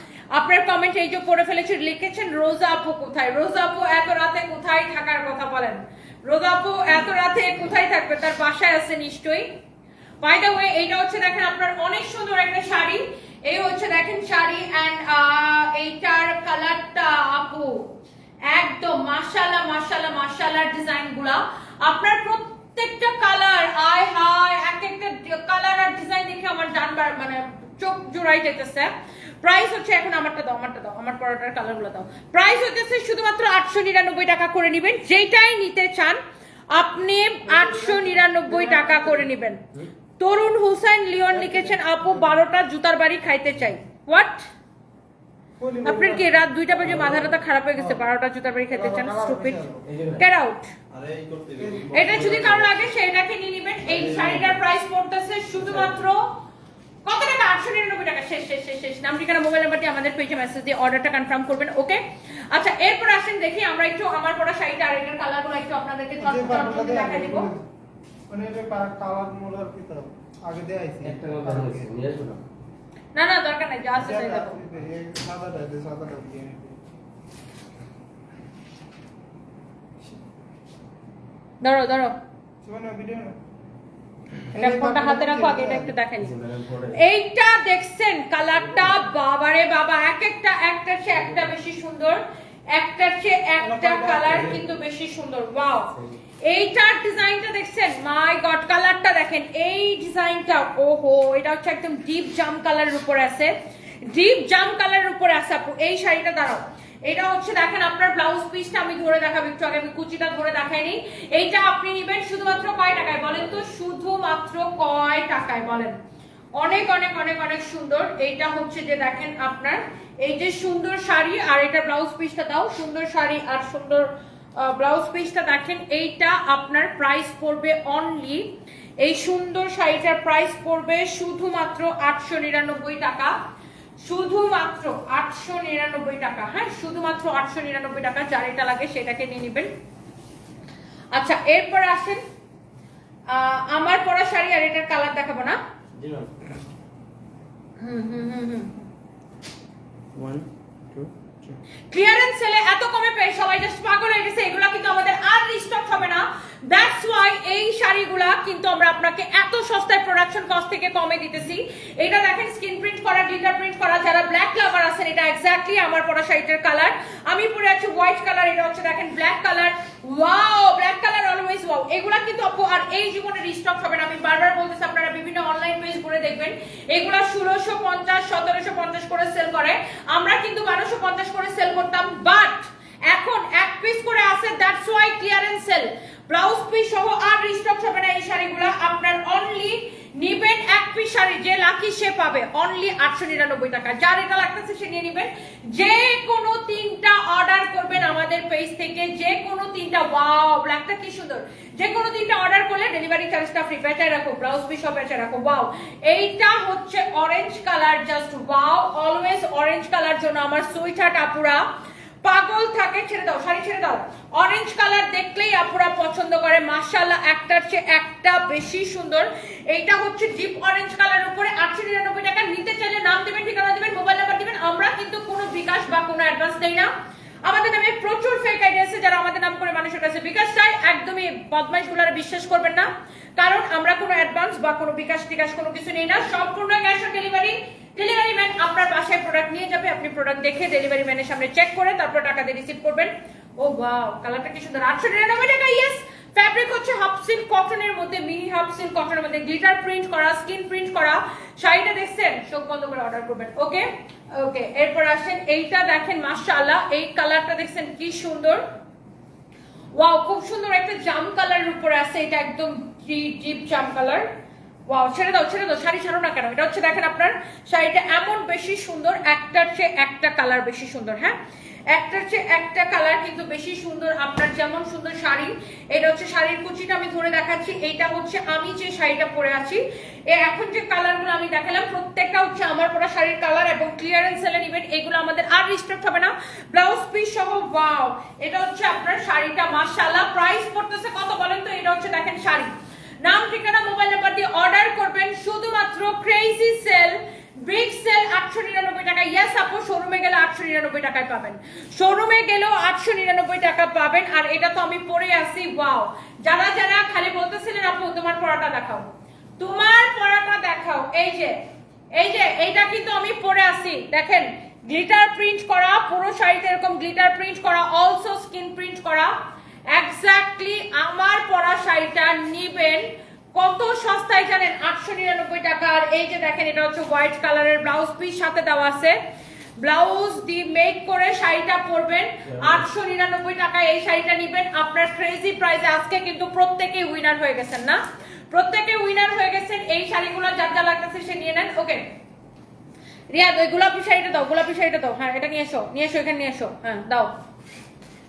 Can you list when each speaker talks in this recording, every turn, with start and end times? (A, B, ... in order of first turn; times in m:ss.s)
0:00.3-0:09.6 A
0:10.2-0:18.0 A
0:18.5-0:36.2 A
0:36.7-0:39.6 A
0:37.5-0:39.3 B
0:40.2-0:44.5 A
0:41.3-0:42.3 B
0:45.6-0:47.2 B
0:45.8-0:50.7 A
0:48.7-0:49.9 B
0:49.8-0:50.2 C
0:50.9-0:52.8 C
0:51.6-0:51.9 B
0:51.9-0:56.4 A
0:53.8-0:54.6 C
0:55.6-0:56.0 C
0:57.1-1:07.5 A
1:06.2-1:07.7 B
1:08.3-1:11.9 B
1:11.0-1:12.4 C
1:13.2-1:14.6 A
1:14.0-1:16.8 B
1:21.6-1:22.2 A
1:22.6-1:23.4 B
1:24.5-1:26.0 B
1:24.6-1:26.3 A
1:26.2-1:27.0 C
1:26.9-1:32.2 A
1:32.7-1:43.5 A
1:33.6-1:34.6 B
1:44.0-1:56.0 A
1:56.6-2:13.4 A
2:14.0-2:19.7 A
2:21.1-2:22.2 A
2:23.3-2:25.6 A
2:26.0-2:26.4 C
2:27.8-2:28.7 A
2:30.2-2:31.6 C
2:31.9-3:31.6 A
3:32.2-3:46.9 A
3:47.4-4:18.6 A
4:20.0-4:24.3 A
4:24.9-4:31.4 A
4:31.9-4:52.7 A
4:53.2-5:11.6 A
5:12.2-5:19.4 A
5:19.9-5:29.2 A
5:29.8-5:42.0 A
5:32.5-5:32.8 C
5:43.3-5:47.3 A